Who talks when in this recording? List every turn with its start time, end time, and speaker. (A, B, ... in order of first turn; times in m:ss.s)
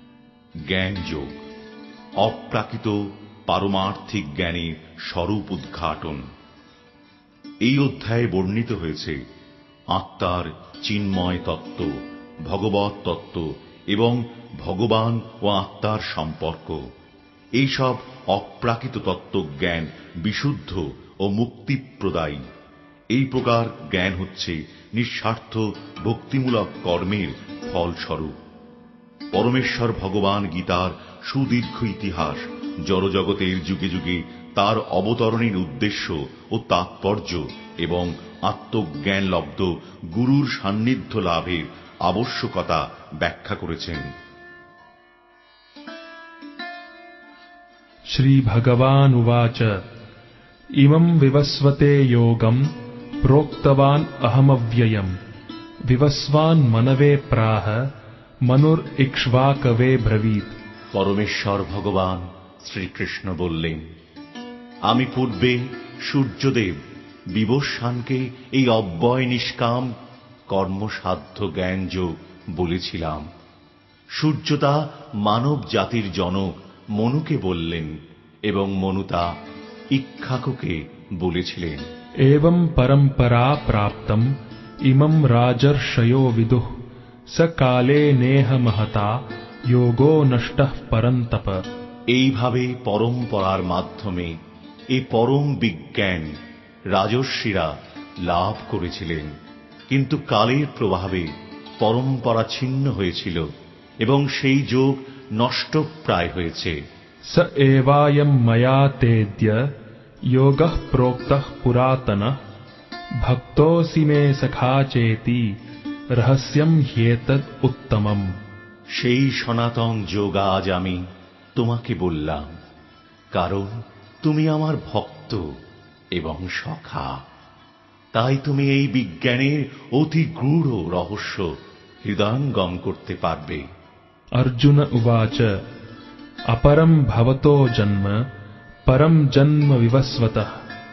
0:00.6-0:01.4 A
0:02.2-0:06.2 A
0:07.6-0:09.2 A
0:09.9-0:16.8 A
0:17.6-0:22.4 A
0:23.1-0:28.4 A
0:29.3-0:44.1 A
0:48.1-0:49.8 B
0:50.8-0:52.7 B
0:53.2-0:55.2 B
0:55.9-0:57.9 B
0:58.4-1:00.6 B
1:00.9-1:03.9 A
1:04.9-1:06.8 A
1:07.3-1:09.9 A
1:10.5-1:13.3 A
1:14.2-1:18.0 A
1:18.5-1:19.3 A
1:19.9-1:21.9 A
1:22.2-1:24.3 B
1:24.8-1:26.7 B
1:27.3-1:31.6 B
1:32.1-1:34.4 A
1:34.9-1:36.3 A
1:36.9-1:39.3 A
1:39.9-1:43.4 A
1:44.0-1:46.8 A
1:47.3-1:49.7 B
1:50.3-1:52.4 B
1:53.2-1:55.4 B
1:56.2-1:58.4 B
1:59.0-2:01.0 A
2:01.6-2:02.5 A
2:03.3-2:05.5 A
2:06.1-2:07.2 A
2:08.1-2:13.6 A
2:14.4-2:15.6 B
2:16.5-2:18.2 B
2:18.9-2:20.5 B